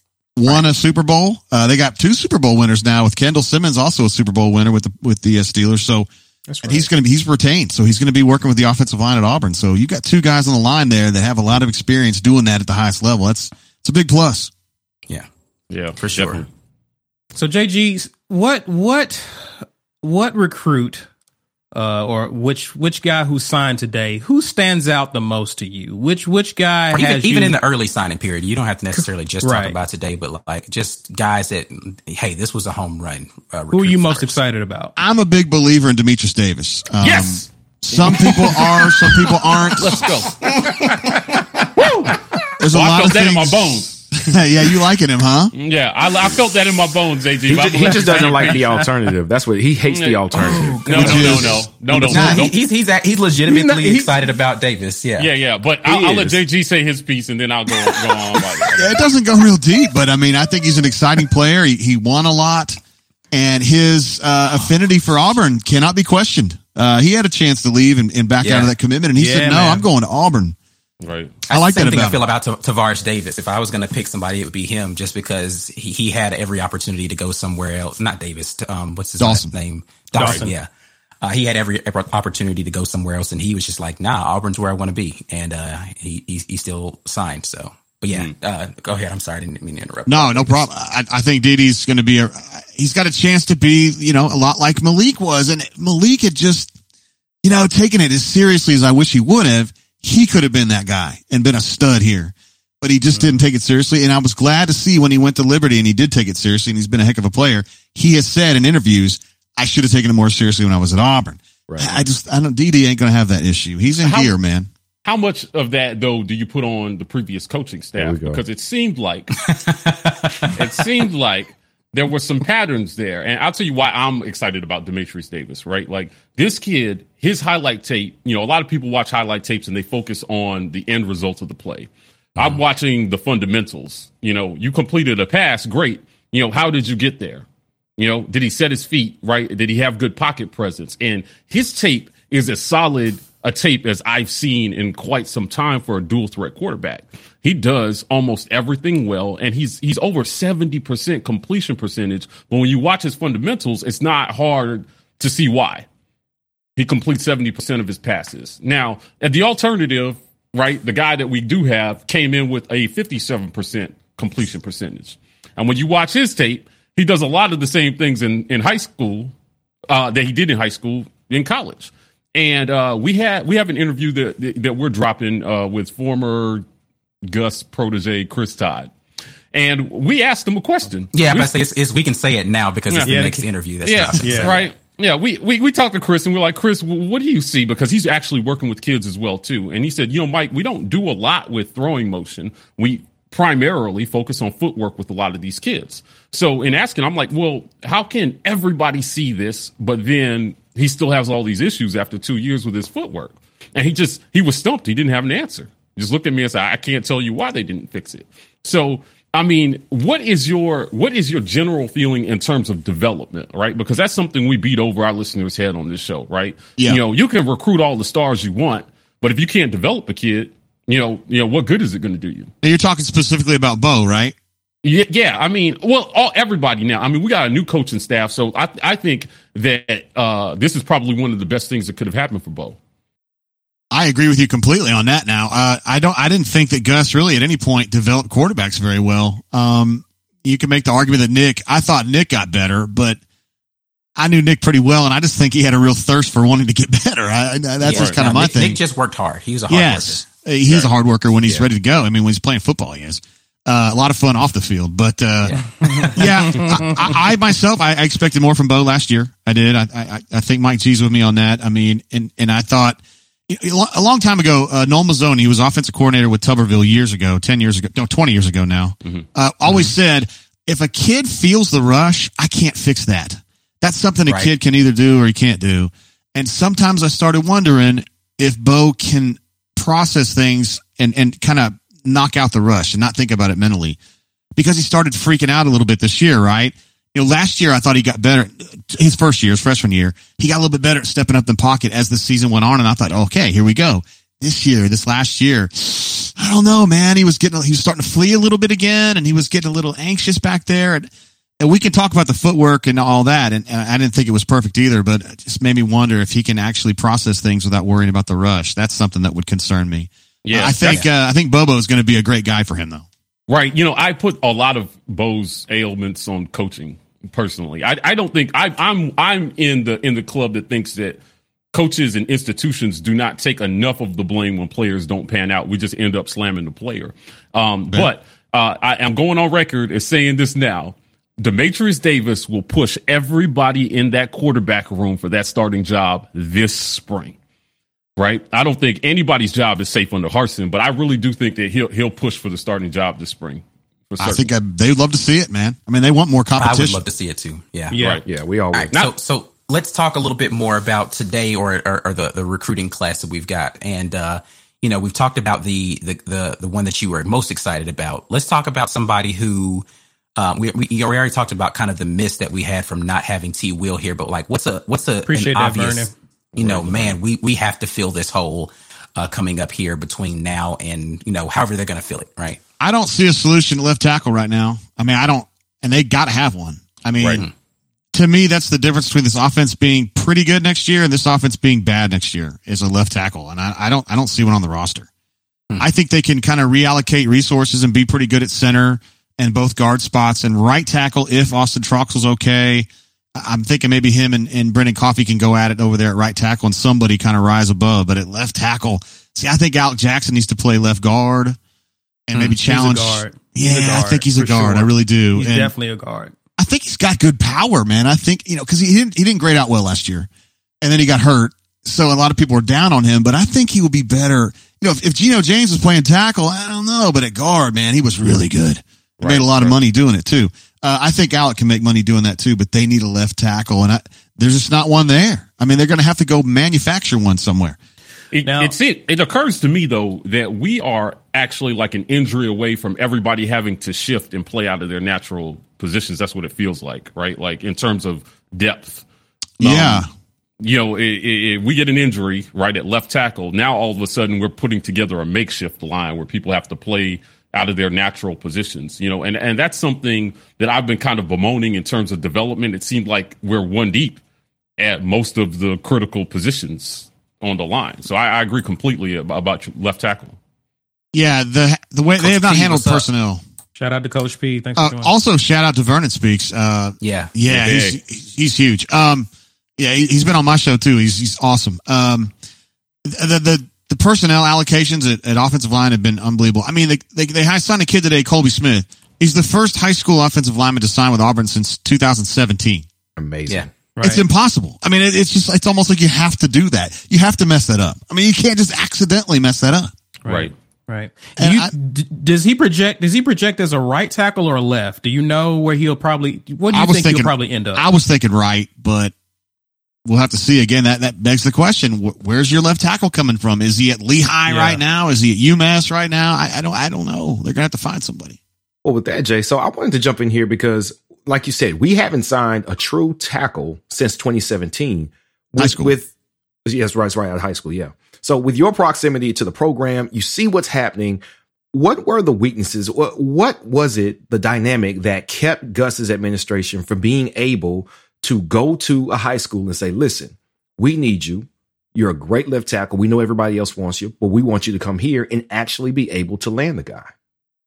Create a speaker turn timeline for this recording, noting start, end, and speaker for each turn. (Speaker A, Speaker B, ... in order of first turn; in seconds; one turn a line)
Speaker A: 0.3-6.1
Speaker B: 6.5-6.8
Speaker A: 6.6-14.5
Speaker C: 15.7-16.5
Speaker D: 16.0-16.4
Speaker E: 17.3-21.1
Speaker E: 21.7-27.6
Speaker D: 26.9-34.3
Speaker E: 28.9-29.8
Speaker E: 33.7-34.9
Speaker A: 35.0-40.2
Speaker C: 37.0-37.4
Speaker C: 39.8-40.4
Speaker D: 40.6-41.2
Speaker A: 42.6-45.5
Speaker C: 42.7-44.0
Speaker C: 45.5-48.9
Speaker B: 47.4-52.3
Speaker C: 49.9-52.5
Speaker D: 50.3-55.3
Speaker A: 51.0-52.5
Speaker E: 53.4-54.1
Speaker C: 55.2-59.0
Speaker B: 55.9-56.4
Speaker A: 58.7-62.8
Speaker A: 63.3-70.5
Speaker D: 68.4-68.7
Speaker E: 69.2-69.8
Speaker C: 71.0-71.3
Speaker D: 71.5-80.7
Speaker A: 71.5-72.2
Speaker A: 79.2-79.5
Speaker E: 80.2-80.5
Speaker C: 80.2-80.5
Speaker D: 81.2-90.6
Speaker A: 90.1-96.7
Speaker A: 97.4-114.7
Speaker E: 103.1-103.4
Speaker B: 111.7-112.0
Speaker C: 114.0-114.3
Speaker C: 115.0-119.4
Speaker B: 118.0-118.4
Speaker D: 119.5-120.7
Speaker C: 120.5-137.4
Speaker C: 138.0-155.8
Speaker C: 156.8-169.3
Speaker C: 169.9-176.6
Speaker C: 177.2-178.9
Speaker C: 179.5-181.5
Speaker D: 181.1-184.7
Speaker C: 182.9-183.2
Speaker E: 183.0-183.4
Speaker C: 183.8-222.5
Speaker E: 184.2-184.6
Speaker A: 222.6-224.3
Speaker C: 224.8-232.8
Speaker A: 233.9-243.2
Speaker A: 244.2-248.8
Speaker D: 247.8-250.9
Speaker C: 247.9-248.2
Speaker A: 249.7-284.0
Speaker D: 255.4-256.6
Speaker D: 269.6-269.9
Speaker A: 284.6-313.1
Speaker C: 310.4-311.0
Speaker C: 313.5-321.2
Speaker C: 321.7-337.4
Speaker C: 338.2-344.5
Speaker A: 344.2-347.0
Speaker D: 346.6-348.0
Speaker E: 347.9-348.2
Speaker C: 347.9-348.2
Speaker B: 348.2-349.0
Speaker D: 348.7-359.8
Speaker D: 360.4-372.6
Speaker E: 365.3-366.1
Speaker C: 366.6-367.1
Speaker A: 372.8-377.4
Speaker A: 378.1-385.1
Speaker A: 385.8-401.6
Speaker A: 402.3-405.7
Speaker E: 402.6-406.3
Speaker A: 406.6-410.3
Speaker A: 410.8-427.8
Speaker C: 419.2-419.7
Speaker C: 428.3-439.0
Speaker E: 428.4-428.8
Speaker A: 439.6-440.1
Speaker C: 439.6-440.0
Speaker C: 440.6-454.2
Speaker C: 454.8-460.4
Speaker A: 461.1-463.4
Speaker D: 462.2-463.1
Speaker E: 463.8-465.1
Speaker A: 464.8-472.3
Speaker D: 467.0-467.3
Speaker C: 467.5-468.0
Speaker A: 473.0-482.9
Speaker B: 483.2-483.7
Speaker E: 483.9-484.2
Speaker A: 484.0-489.9
Speaker E: 490.2-497.8
Speaker C: 490.3-490.5
Speaker A: 491.4-491.7
Speaker A: 496.7-499.1
Speaker A: 500.1-508.4
Speaker E: 504.5-504.8
Speaker B: 508.8-516.1
Speaker A: 515.6-515.9
Speaker B: 516.6-521.2
Speaker B: 521.7-537.1